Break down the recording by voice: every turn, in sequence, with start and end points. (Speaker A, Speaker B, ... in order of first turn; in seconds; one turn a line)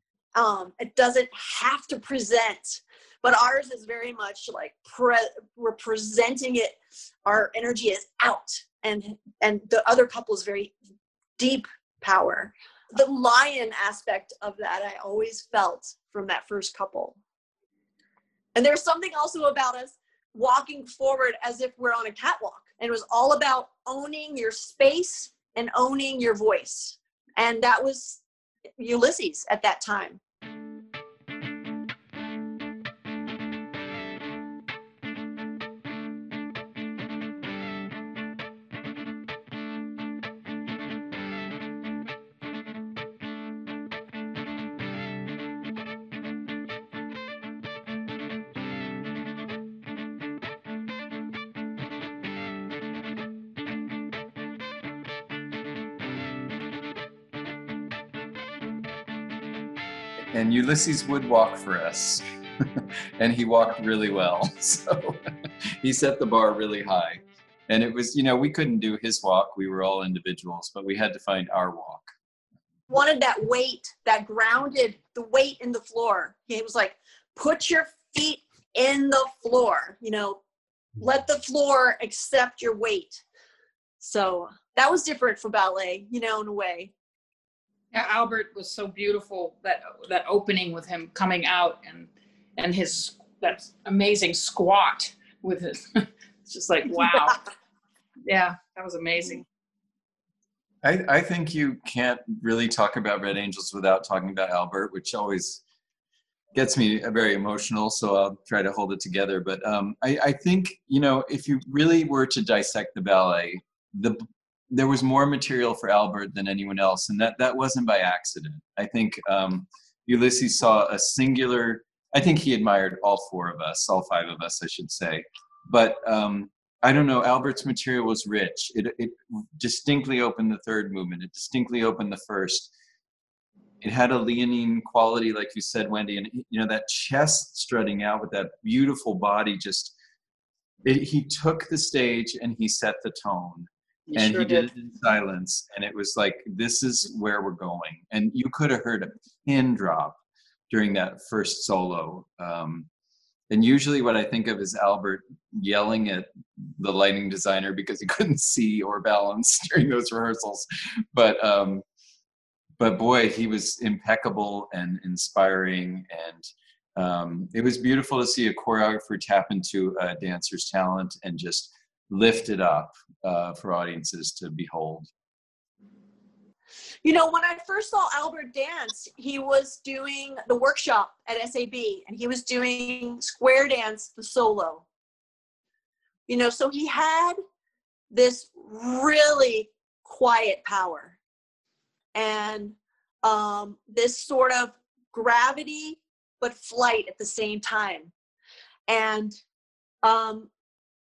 Speaker A: 0.3-10.8
Speaker A: 11.4-17.2
Speaker A: 18.6-28.2
Speaker A: 28.8-30.2
Speaker B: 60.3-65.3
Speaker B: 65.8-72.1
Speaker A: 72.9-80.4
Speaker A: 81.0-83.2
Speaker A: 84.0-86.9
Speaker C: 87.9-97.4
Speaker C: 98.3-99.5
Speaker B: 100.8-105.6
Speaker B: 106.5-132.7
Speaker B: 133.8-139.9
Speaker B: 140.8-150.2
Speaker C: 144.1-144.7
Speaker B: 150.7-152.9
Speaker B: 153.5-161.8
Speaker B: 162.8-175.1
Speaker A: 177.0-184.8
Speaker A: 186.3-187.4
Speaker A: 188.1-191.2
Speaker A: 192.2-198.1
Speaker A: 198.9-199.4
Speaker A: 200.0-200.5